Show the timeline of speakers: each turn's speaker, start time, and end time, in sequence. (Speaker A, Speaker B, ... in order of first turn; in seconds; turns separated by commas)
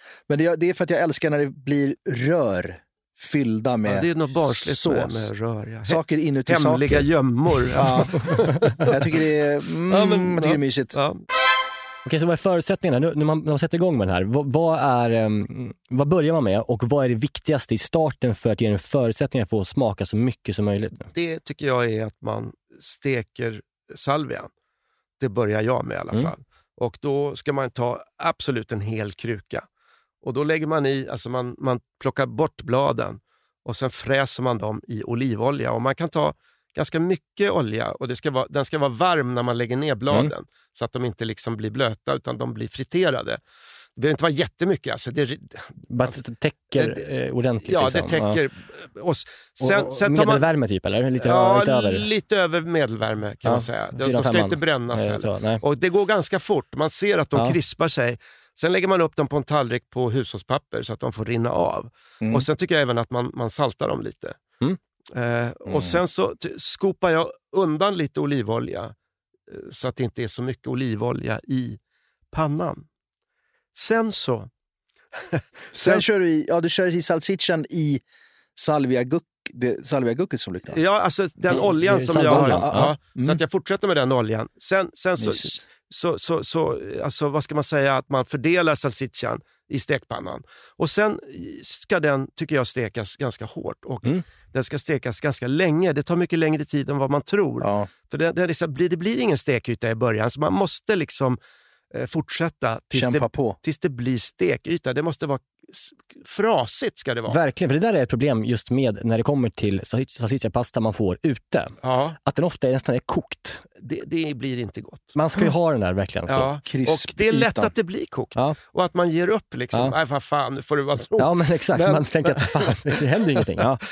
Speaker A: 0.3-5.3, Speaker B: 3.9-8.9, Speaker A: 5.8-7.1, Speaker A: 7.7-8.3, Speaker A: 8.8-11.0, Speaker B: 9.9-11.2, Speaker C: 12.0-21.1, Speaker B: 21.1-24.5, Speaker B: 25.2-29.6, Speaker B: 30.2-43.4, Speaker B: 44.0-46.2, Speaker C: 45.9-48.4, Speaker B: 46.8-47.1, Speaker B: 47.6-50.5, Speaker C: 49.6-52.1, Speaker B: 51.2-64.4, Speaker C: 53.4-55.6, Speaker A: 62.2-62.5, Speaker B: 65.1-68.9, Speaker A: 65.7-66.0, Speaker B: 69.5-71.8, Speaker B: 72.3-72.8, Speaker B: 73.7-74.5, Speaker B: 75.3-76.0, Speaker A: 75.7-78.0, Speaker A: 78.5-80.8, Speaker B: 80.7-101.4, Speaker C: 81.5-82.9, Speaker A: 82.1-83.4, Speaker A: 85.2-85.6, Speaker A: 97.6-97.9, Speaker B: 101.9-107.4, Speaker A: 102.9-103.5, Speaker C: 107.3-113.6, Speaker B: 111.8-112.2, Speaker B: 113.8-115.1, Speaker C: 115.1-116.5, Speaker B: 116.3-123.7, Speaker A: 116.7-117.7, Speaker C: 121.2-123.8